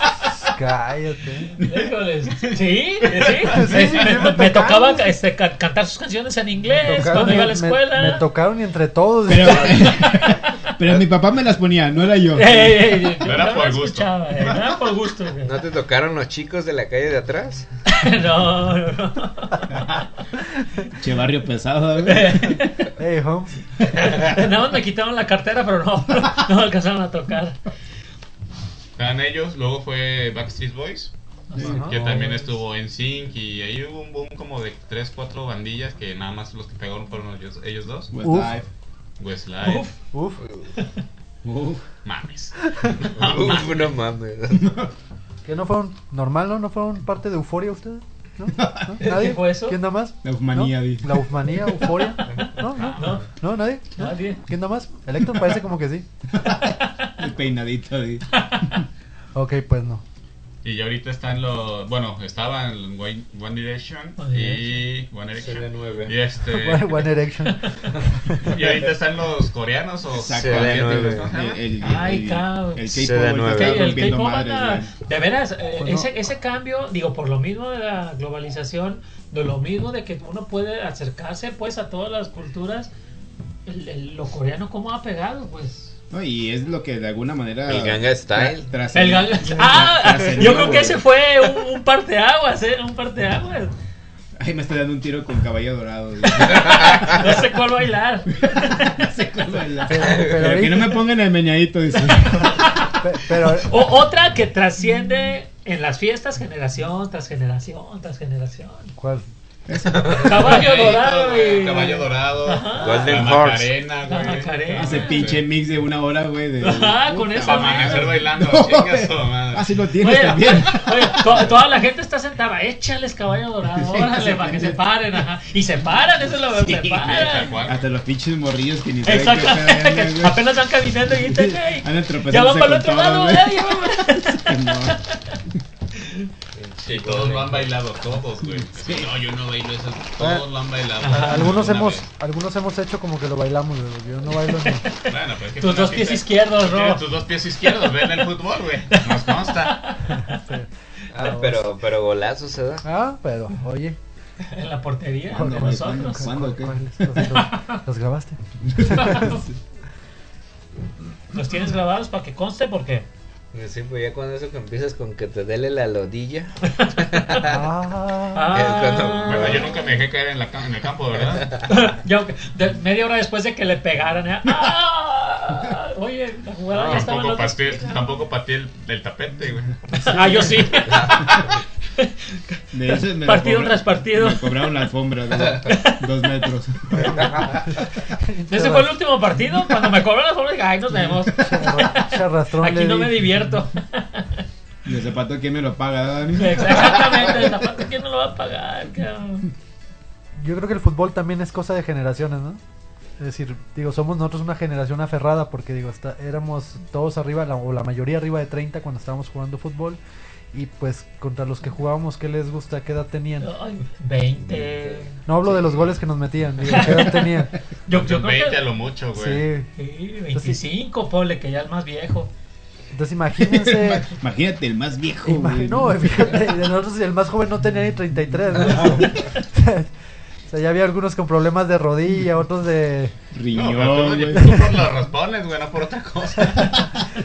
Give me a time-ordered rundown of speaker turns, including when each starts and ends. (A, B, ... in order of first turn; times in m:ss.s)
0:00.4-0:01.5 A
0:01.6-0:08.3 B
0:03.0-0:03.6 C
0:03.4-0:05.1 A
0:06.8-0:09.9 A
0:09.3-0:13.1 D
0:09.4-0:10.5 B
0:12.3-0:15.6 B
0:13.2-0:14.1 C
0:15.4-0:17.7 E
0:17.9-0:19.7 B
0:21.0-0:22.6 D
0:22.0-0:22.9 B
0:23.0-0:23.6 A
0:23.8-0:27.6 B
0:29.0-0:38.1 C
0:31.5-0:32.1 B
0:31.6-0:32.0 A
0:38.1-0:38.7 D
0:38.2-0:38.6 A
0:39.2-0:39.9 C
0:39.6-0:39.9 B
0:40.1-0:40.4 A
0:40.4-0:40.7 E
0:41.4-0:41.8 D
0:42.0-0:43.9 C
0:43.1-0:44.8 E
0:44.5-0:44.9 D
0:45.4-0:56.1 A
0:48.5-0:48.9 D
0:49.0-0:49.8 B
0:50.2-0:51.2 D
0:52.7-0:53.2 C
0:52.9-0:53.3 B
0:54.0-0:54.4 B
0:56.3-0:58.8 D
0:56.8-0:57.1 B
0:58.3-0:58.8 B
0:59.3-1:00.0 A
1:00.6-1:07.1 C
1:04.2-1:04.8 B
1:05.4-1:06.2 E
1:06.5-1:07.6 A
1:07.5-1:07.9 B
1:08.2-1:08.5 A
1:08.4-1:11.6 C
1:10.1-1:14.9 D
1:10.3-1:11.3 E
1:11.8-1:22.9 B
1:12.9-1:14.0 E
1:15.8-1:16.1 A
1:23.6-1:25.9 B
1:26.1-1:31.0 D
1:27.6-1:28.7 E
1:28.9-1:33.7 B
1:34.4-1:37.2 D
1:36.3-1:39.0 B
1:38.3-1:42.6 D
1:39.8-1:41.0 A
1:42.1-1:48.9 B
1:42.9-1:43.8 A
1:49.0-1:49.3 A
1:49.7-1:50.6 D
1:50.1-1:53.4 B
1:50.2-1:55.4 C
1:52.8-1:53.7 E
1:54.0-1:55.3 B
1:54.7-2:01.6 D
1:56.6-1:58.2 B
1:57.3-1:59.7 C
2:00.0-2:07.5 B
2:03.7-2:04.9 D
2:06.4-2:10.5 D
2:07.0-2:07.9 C
2:09.0-2:15.4 B
2:11.1-2:15.6 D
2:16.0-2:16.3 B
2:16.5-2:17.7 E
2:16.8-2:22.1 C
2:18.7-2:19.1 D
2:20.2-2:20.4 A
2:21.0-2:21.4 B
2:21.0-2:24.8 A
2:24.4-2:27.0 B
2:25.1-2:29.8 C
2:28.9-2:30.4 B
2:30.1-2:31.7 A
2:31.1-2:32.8 E
2:32.8-2:34.0 A
2:34.5-2:36.3 B
2:35.3-2:36.8 D
2:35.3-2:39.4 A
2:37.2-2:37.8 B
2:38.6-2:39.6 D
2:38.9-2:39.4 B
2:41.3-2:43.0 B
2:43.5-2:47.6 E
2:47.4-2:48.7 A
2:48.3-2:49.8 B
2:48.5-2:49.8 E
2:49.2-2:51.5 C
2:51.2-2:51.6 E
2:51.6-2:58.0 B
2:56.7-2:57.0 E
2:56.8-3:00.1 C
3:00.0-3:04.8 B
3:00.9-3:01.2 E
3:02.7-3:07.6 D
3:05.6-3:06.5 B
3:07.0-3:07.6 E
3:08.2-3:09.0 A
3:08.5-3:14.4 B
3:11.3-3:13.2 A
3:14.8-3:17.6 D
3:16.3-3:19.5 B
3:20.4-3:22.6 A
3:23.2-3:30.0 A
3:30.5-3:33.5 A
3:33.4-3:35.2 B
3:34.6-3:35.0 E
3:35.2-3:37.5 A
3:36.6-3:38.6 B
3:37.9-3:39.4 C
3:39.1-3:39.7 A
3:39.8-3:42.3 B
3:40.3-3:40.6 A
3:42.9-3:44.1 A
3:43.5-3:46.4 D
3:45.2-3:49.9 A
3:50.5-3:53.1 A
3:53.3-3:54.6 D
3:53.5-3:57.0 C
3:54.4-3:54.7 A
3:56.4-3:56.7 A